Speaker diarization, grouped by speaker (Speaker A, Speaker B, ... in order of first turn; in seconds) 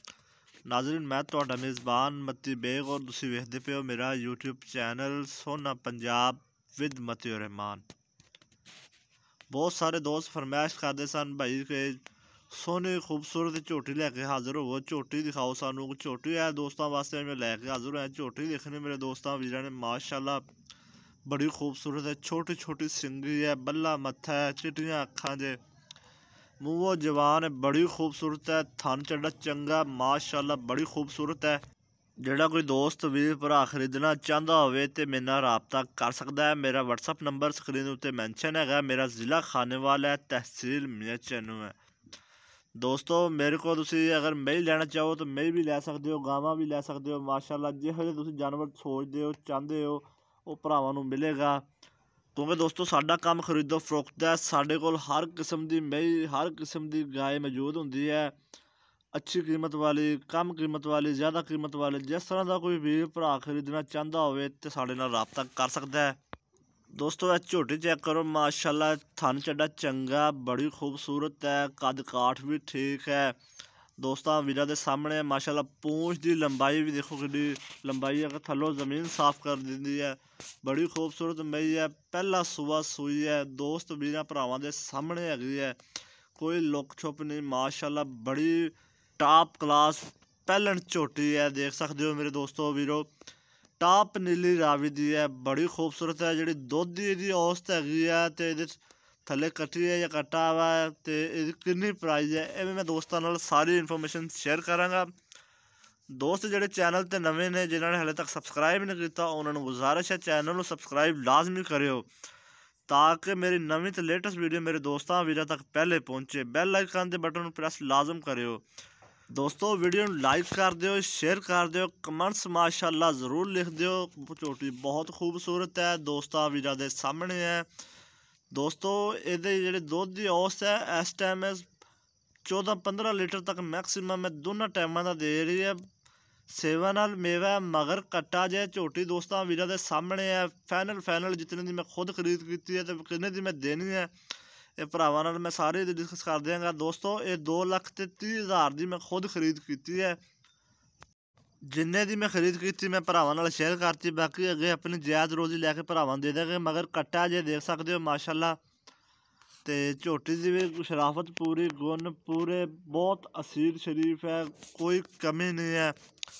Speaker A: 0.7-7.8, 9.5-20.4, 21.2-25.6, 26.6-31.6, 32.2-41.7, 42.8-51.6, 52.3-58.3, 59.1-66.2, 66.9-73.4, 74.0-85.8, 86.3-93.1, 93.8-105.1, 106.1-112.1, 112.9-118.6, 119.3-127.7, 128.5-131.7, 132.4-135.8, 136.5-144.1, 144.8-150.2, 151.7-158.6, 159.6-165.9